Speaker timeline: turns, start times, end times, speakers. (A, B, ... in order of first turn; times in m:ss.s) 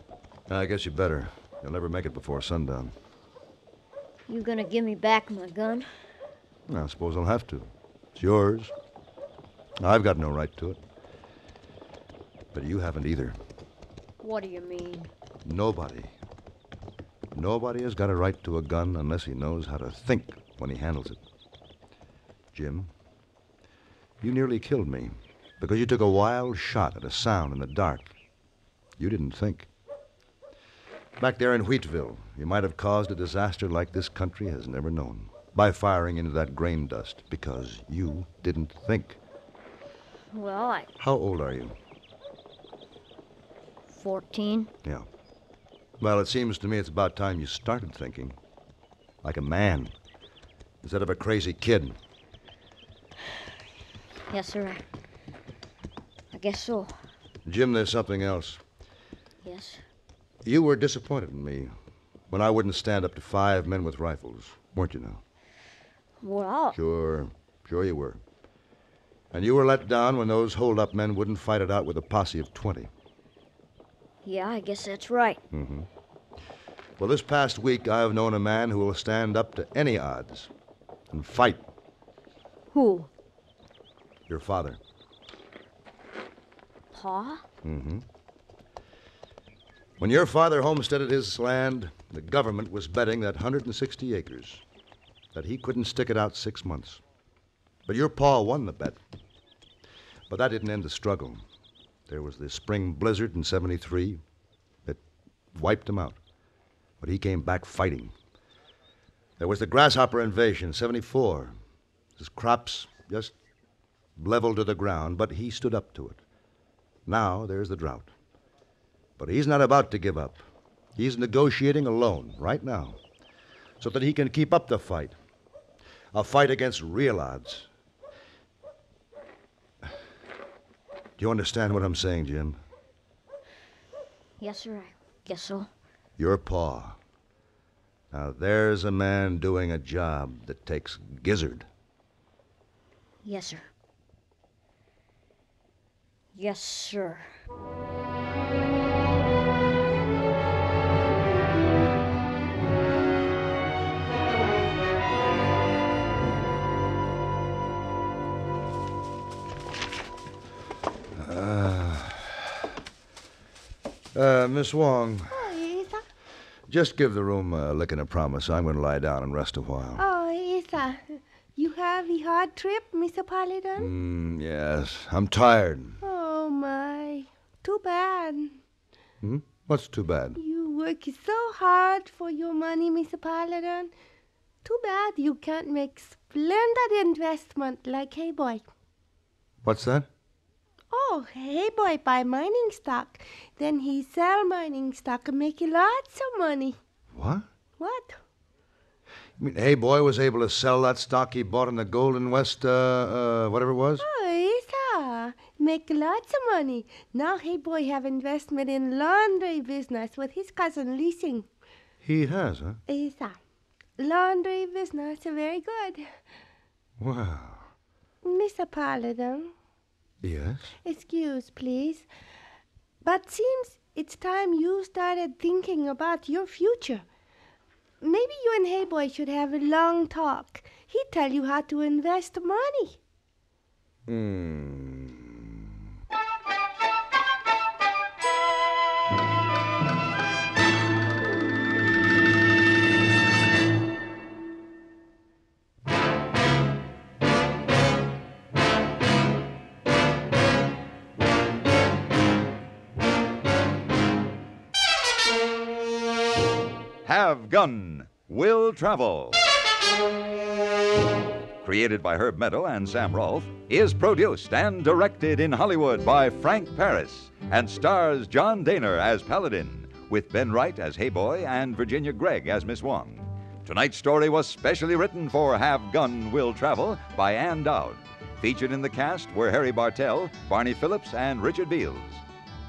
0:00.5-0:03.0 A
0:04.3-0:05.9 B
0:06.7-0:08.7 A
0:09.8-0:10.8 A
0:12.5-0:13.4 A
0:14.2-0:15.1 B
0:15.4-0:16.1 A
0:17.3-0:21.2 A
0:22.5-0:22.9 A
0:24.2-0:28.1 A
0:29.0-0:29.7 A
0:31.2-0:39.2 A
0:40.3-0:40.9 B
0:41.0-0:41.8 A
0:43.9-0:44.7 B
0:46.0-0:48.4 A
0:49.2-0:49.9 A
0:50.8-0:52.0 A
0:54.3-0:54.8 B
0:56.3-0:57.0 B
0:57.4-0:58.6 A
0:59.4-0:59.8 B
1:00.4-1:01.7 A
1:02.3-1:05.2 A
1:06.2-1:06.8 B
1:06.7-1:08.2 A
1:09.3-1:12.9 A
1:14.2-1:15.4 B
1:15.5-1:15.9 A
1:17.0-1:20.5 A
1:21.1-1:21.7 A
1:22.7-1:23.1 B
1:24.3-1:24.8 A
1:26.9-1:27.4 B
1:27.6-1:28.0 A
1:30.0-1:34.6 A
1:35.3-1:37.0 A
1:37.9-1:39.0 A
1:40.3-1:41.4 A
1:42.1-1:44.2 A
1:45.5-1:46.2 A
1:47.0-1:48.2 A
1:49.4-1:51.5 A
1:52.2-1:53.4 A
1:54.2-1:56.2 A
1:57.1-1:58.1 A
1:59.2-2:00.4 A
2:01.0-2:03.0 A
2:03.8-2:05.2 A
2:06.1-2:07.7 A
2:11.2-2:12.6 A
2:14.4-2:15.7 B
2:16.2-2:17.0 A
2:18.1-2:21.7 A
2:23.2-2:23.7 B
2:26.4-2:27.3 B
2:41.2-2:42.4 A
2:44.1-2:45.4 A
2:45.3-2:46.0 C
2:46.7-2:50.0 A
2:50.0-2:53.9 C
2:53.8-2:56.0 A
2:56.0-2:58.6 C
2:59.2-3:00.4 A
3:00.4-3:03.9 C
3:04.6-3:08.7 C
3:09.6-3:10.1 A
3:10.9-3:16.8 C
3:17.1-3:17.5 A
3:17.8-3:18.2 C
3:19.4-3:24.0 A
3:24.0-3:31.5 C
3:32.0-3:32.8 A
3:32.9-3:33.4 C
3:34.0-3:36.2 C
3:37.0-3:37.7 A
3:38.2-3:39.5 C
3:40.2-3:40.7 A
3:40.8-3:42.1 C
3:43.0-3:47.1 C
3:48.0-3:53.0 C
3:54.1-3:55.6 A
4:17.0-4:19.4 D
4:21.6-4:42.2 D